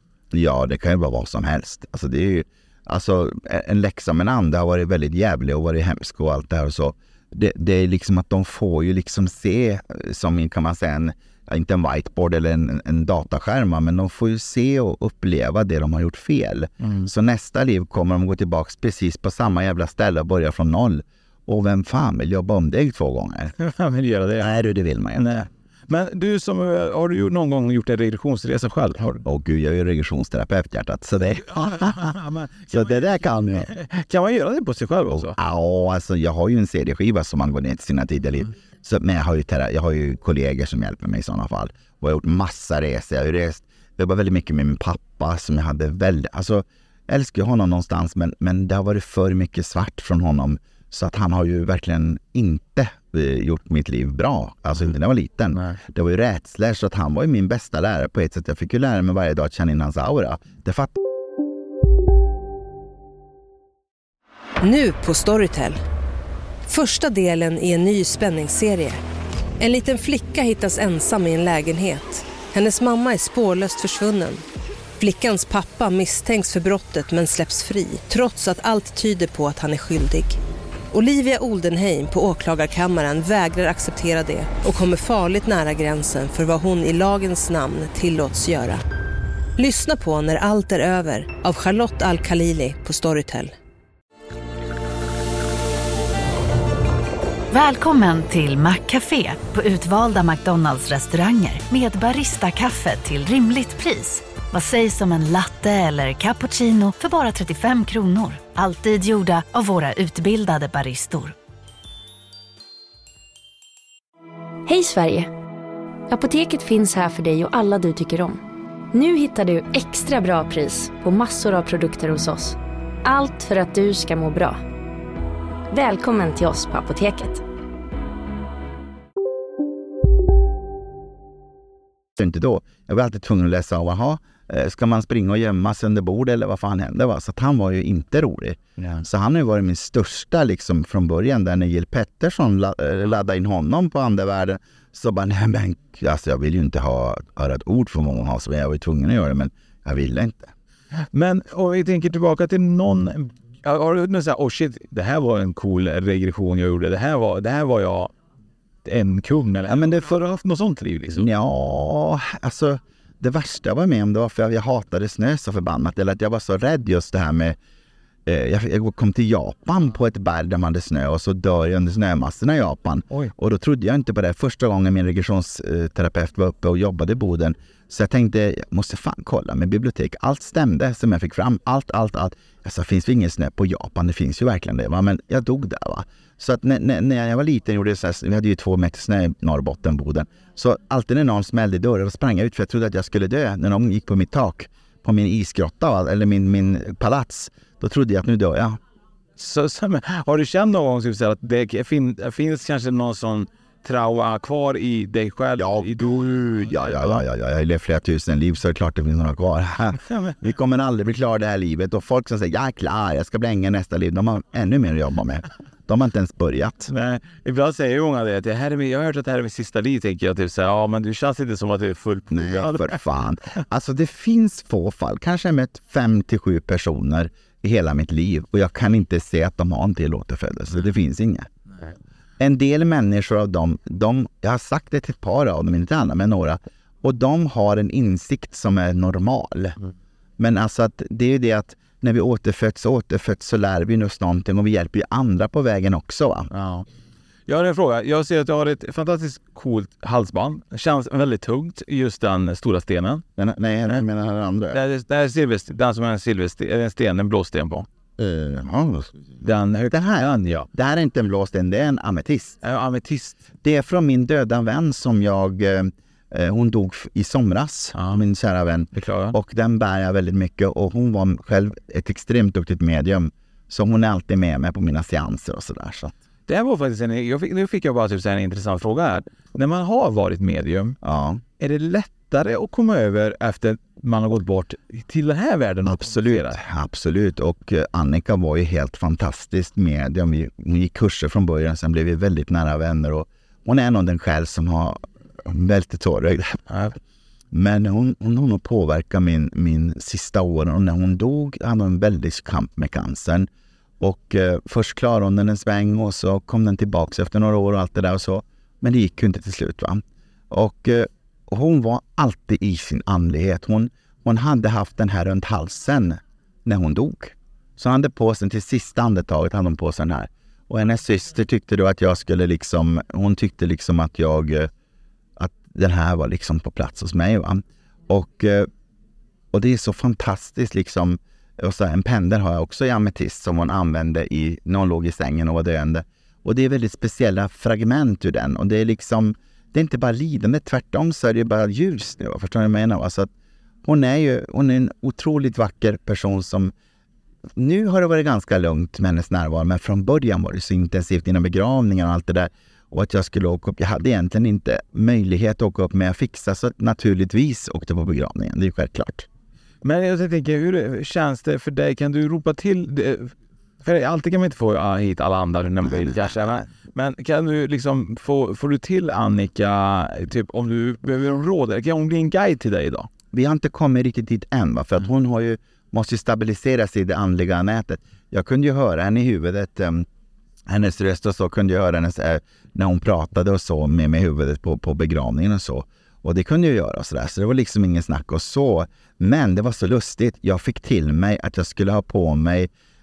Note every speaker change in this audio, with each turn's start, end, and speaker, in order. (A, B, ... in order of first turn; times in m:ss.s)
0:00.3-0:23.6 A
0:16.8-0:17.1 B
0:23.6-0:24.5 B
0:24.4-0:25.5 A
0:25.2-0:29.2 B
0:29.2-0:32.0 A
0:31.6-0:32.8 B
0:32.7-0:33.7 A
0:33.7-0:35.4 B
0:35.4-1:01.0 A
1:04.6-1:05.8 C
1:06.7-1:09.0 C
1:09.6-1:14.4 C
1:15.0-1:20.4 C
1:20.9-1:28.8 C
1:29.6-1:33.5 C
1:37.5-1:51.4 D
1:54.6-1:55.3 E
1:56.1-1:58.4 E
1:58.9-2:04.6 E
2:05.7-2:07.4 E
2:12.2-2:30.5 A
2:31.1-2:38.1 B
2:38.8-2:41.3 B
2:39.7-2:40.0 A
2:41.1-2:47.6 A
2:48.2-3:18.8 A
3:19.4-3:27.2 B
3:25.6-3:36.9 A
3:30.1-3:30.3 B
3:36.9-3:43.0 B
3:42.3-3:51.5 A
3:52.4-3:59.8 A
4:00.4-4:06.5 A
4:06.5-4:06.8 B
4:07.5-4:13.2 B
4:13.4-4:14.8 A
4:14.7-4:17.9 B
4:18.2-4:19.1 A
4:19.4-4:20.7 B
4:19.9-4:22.6 A
4:22.6-4:23.4 B
4:23.6-4:36.1 A
4:28.0-4:28.2 B
4:29.0-4:29.4 B
4:36.5-4:41.0 B
4:41.0-4:41.4 A
4:41.6-4:46.6 B
4:45.8-4:56.6 A
4:56.7-4:57.0 B
4:57.5-5:03.5 A
5:04.0-5:24.7 A
5:25.4-5:28.7 A
5:29.5-5:43.3 A
5:43.8-5:46.7 A
5:47.6-5:59.3 A
5:59.8-6:13.1 B
6:05.8-6:06.4 A
6:13.3-6:20.1 A
6:20.7-6:32.7 A